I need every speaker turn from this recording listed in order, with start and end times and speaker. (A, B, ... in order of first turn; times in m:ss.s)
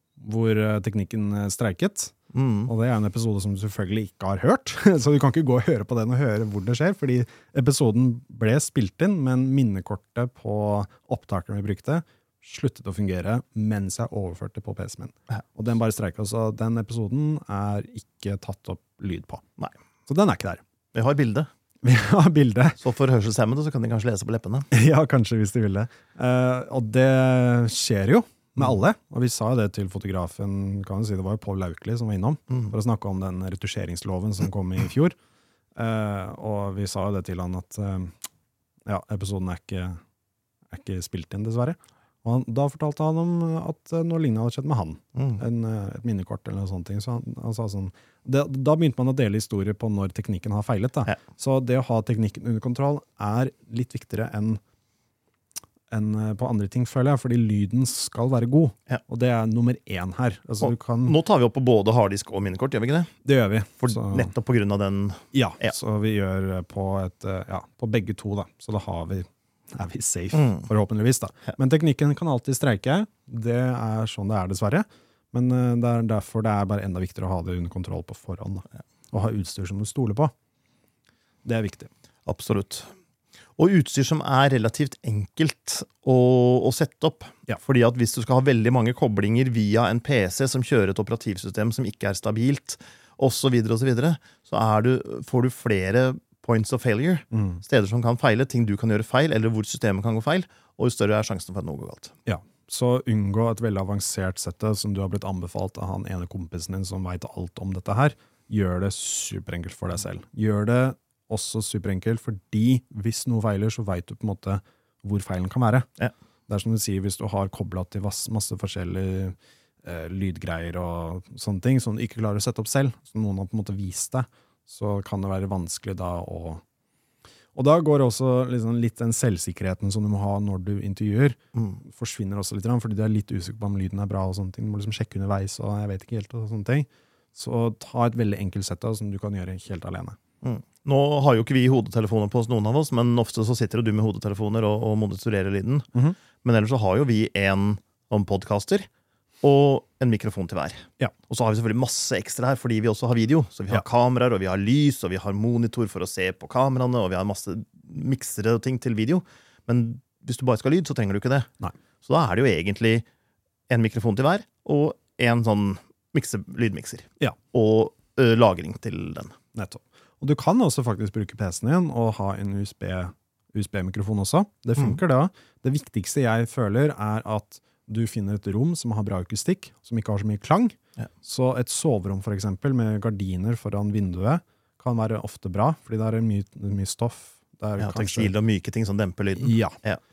0:00.2-0:19.4 A
0:02.3-0:02.7 B
0:20.1-0:20.6 A
0:20.9-0:21.5 B
0:21.8-0:22.8 A
0:22.8-0:24.7 B
0:24.7-0:35.1 A
0:35.8-0:38.1 A
0:38.8-0:40.0 A
0:40.7-0:54.6 A
0:45.1-0:45.4 B
0:55.9-1:01.2 A
1:00.6-1:03.1 B
1:03.2-1:04.3 A
1:03.8-1:05.7 B
1:05.3-1:20.3 A
1:10.3-1:10.6 B
1:21.4-1:21.9 A
1:22.2-1:22.9 B
1:23.6-1:42.1 B
1:37.3-1:37.6 A
1:42.2-1:55.9 A
1:56.5-2:06.6 A
2:07.5-2:20.2 A
2:20.4-2:28.9 B
2:29.4-2:41.5 B
2:42.0-2:43.0 B
2:43.7-2:49.3 B
2:49.5-3:08.3 A
3:07.8-3:10.0 B
3:09.4-3:09.8 A